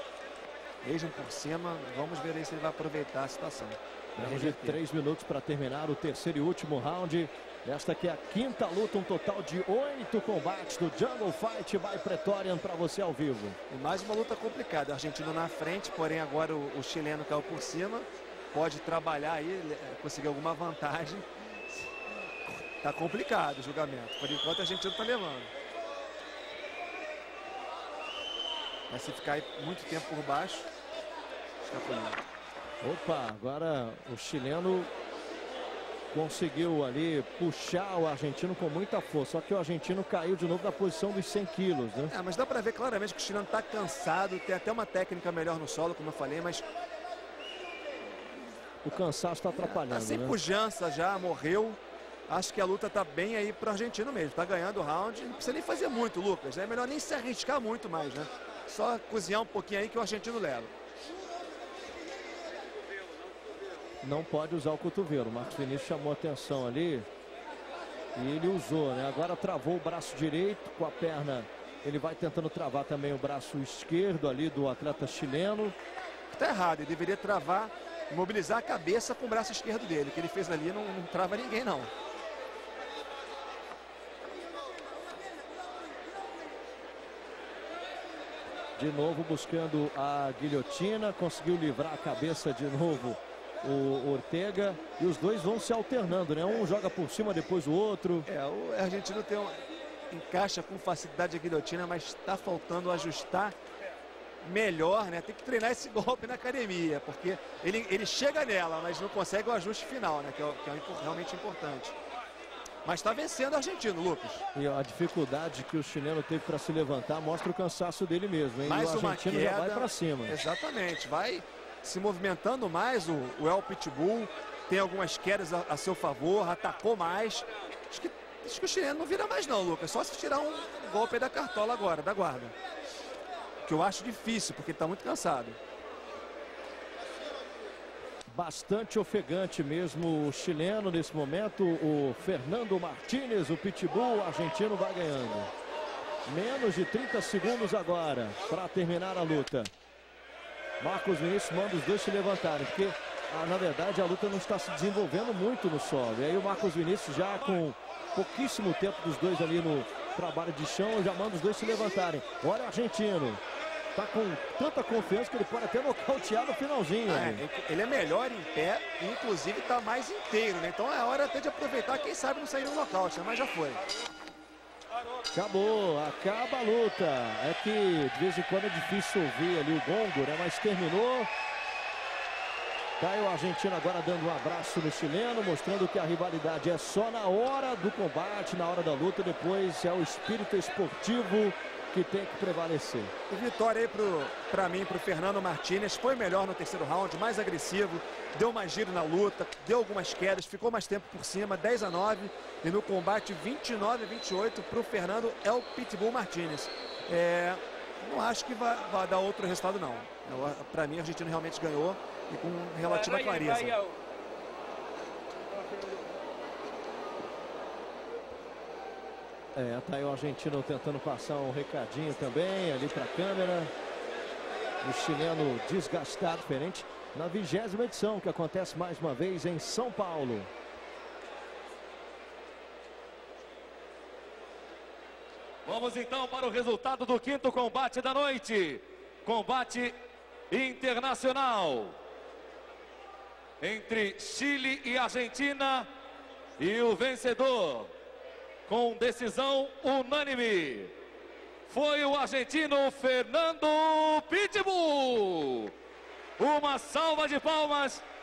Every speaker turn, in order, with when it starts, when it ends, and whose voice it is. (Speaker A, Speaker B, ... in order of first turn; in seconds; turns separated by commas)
Speaker A: 0.8-4.8, Speaker B: 4.2-13.6, Speaker A: 13.7-21.9, Speaker A: 22.5-25.5, Speaker A: 28.9-30.7, Speaker A: 31.6-32.2, Speaker B: 32.8-34.9, Speaker B: 36.1-42.1, Speaker A: 42.1-46.7, Speaker B: 48.8-50.4, Speaker A: 49.5-60.7, Speaker B: 64.0-67.1, Speaker B: 68.2-75.8, Speaker A: 76.3-81.9, Speaker B: 88.8-98.3, Speaker A: 98.3-103.5, Speaker A: 104.4-112.0, Speaker A: 112.8-114.4, Speaker B: 114.5-120.4, Speaker A: 118.6-132.5, Speaker A: 133.6-135.6, Speaker B: 138.3-145.5, Speaker B: 146.3-149.7, Speaker B: 150.8-163.4, Speaker B: 163.9-167.4, Speaker A: 167.1-173.8, Speaker B: 175.3-181.3, Speaker B: 183.0-193.1, Speaker A: 193.3-213.9, Speaker B: 219.6-223.7, Speaker B: 224.8-230.5, Speaker C: 235.7-239.9, Speaker C: 240.5-241.9, Speaker C: 243.6-245.9, Speaker C: 246.6-247.9, Speaker C: 248.7-250.9, Speaker C: 251.7-255.7, Speaker C: 256.4-258.0